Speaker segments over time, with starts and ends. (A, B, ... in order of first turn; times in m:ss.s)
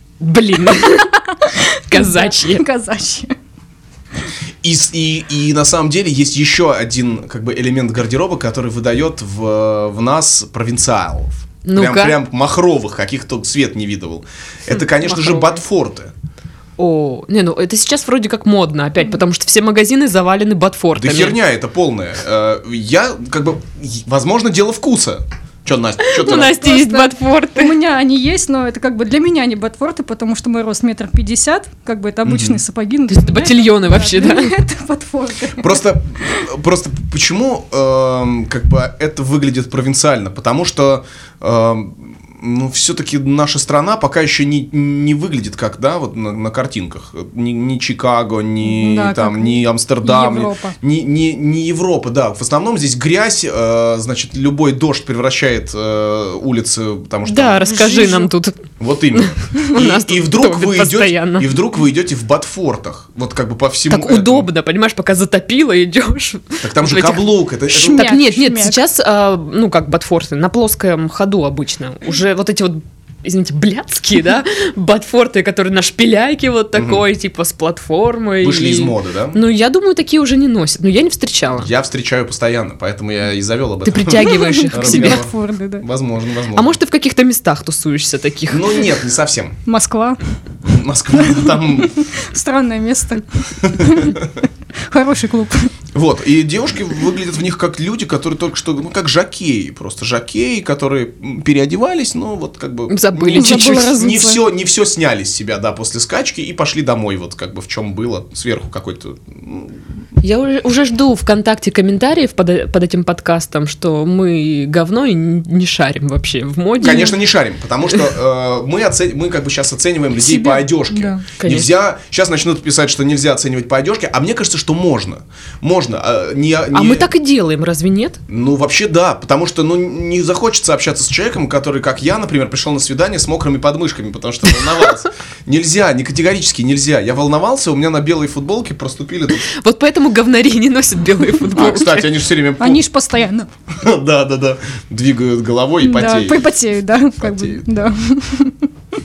0:00.2-0:01.1 A
0:00.6-0:03.3 B
0:01.9-0:02.6 A
0:04.6-0:16.1 C
0:11.6-0:12.2 A
0:14.7-0:15.6 A
0:16.8-0:21.4 A
0:21.0-0:26.8 C
0:26.0-0:27.8 A
0:26.6-0:36.5 B
0:32.2-0:32.6 C
0:33.1-0:34.5 A
0:35.6-0:57.6 C
0:48.6-0:50.7 B
0:57.2-0:58.6 A
0:57.6-0:58.3 B
0:58.8-1:04.5 C
0:59.1-1:01.5 A
1:03.9-1:21.7 A
1:06.6-1:08.1 C
1:07.7-1:08.8 B
1:16.7-1:17.0 C
1:18.4-1:19.4 C
1:21.6-1:26.8 C
1:23.8-1:25.2 A
1:24.3-1:25.8 B
1:26.5-1:28.8 A
1:28.5-1:29.6 C
1:29.6-1:30.2 B
1:30.6-1:32.0 C
1:31.3-1:34.3 B
1:33.6-1:34.3 C
1:34.9-1:35.7 B
1:35.9-1:49.8 C
1:42.9-1:43.9 A
1:43.3-1:44.4 B
1:50.2-1:57.2 A
1:56.8-2:07.1 C
2:00.2-2:00.6 A
2:00.9-2:01.2 B
2:01.4-2:01.7 A
2:06.7-2:08.2 A
2:08.3-2:19.5 C
2:19.5-2:22.1 A
2:21.5-2:22.8 C
2:22.6-2:23.5 B
2:23.7-2:26.5 C
2:25.8-2:28.7 B
2:27.2-2:27.9 C